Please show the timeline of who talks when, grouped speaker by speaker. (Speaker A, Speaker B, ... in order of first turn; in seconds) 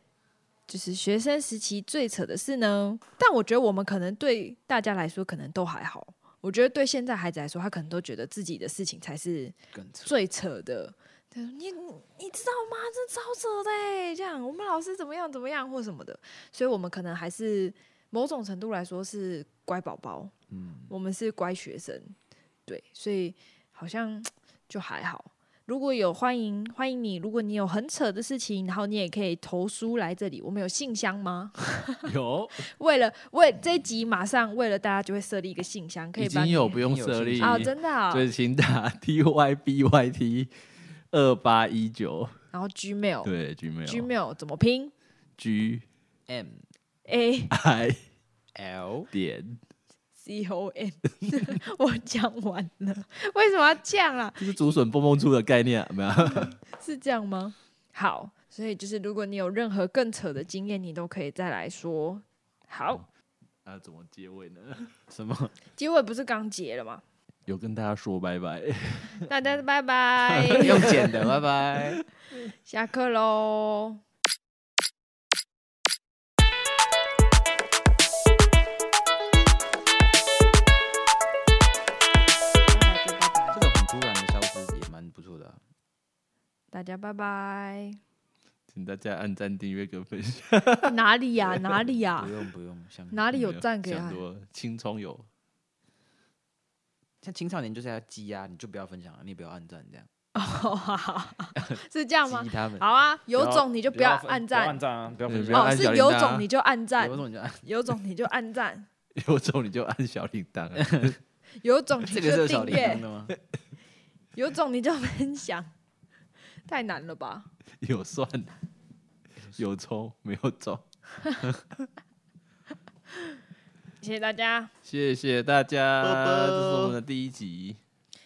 Speaker A: 0.7-20.3, 20.9-22.1, 22.7-36.8, 37.4-38.3, 42.5-43.3, 43.9-44.9, 47.1-47.5, 50.2-54.8, 56.7-63.0, 65.8-67.0, 69.3-71.1, 72.6-74.0, 82.7-83.6, 86.7-88.0, 90.9-92.3, 93.1-94.2, 100.3-104.8, 105.5-108.9, 111.6-113.1, 114.4-115.7, 116.7-117.5, 124.0-124.7
Speaker B: 9.7-10.1, 20.5-20.9, 36.7-37.7, 46.3-46.6, 48.5-49.1, 65.1-65.5, 70.5-72.0, 83.5-85.6, 92.1-93.2, 97.2-100.1, 101.6-106.5, 107.0-107.6, 110.8-111.1, 112.1-113.3, 126.1-126.9
Speaker C: 32.1-32.6, 36.2-40.5, 41.1-42.4, 43.2-44.1, 45.4-45.9, 47.5-48.0, 49.1-49.6, 54.4-56.6, 63.6-65.0, 67.5-69.3, 70.2-72.0, 88.7-91.0, 93.3-95.3, 105.3-106.1, 109.2-111.2, 117.8-118.5, 119.5-120.9, 124.8-127.8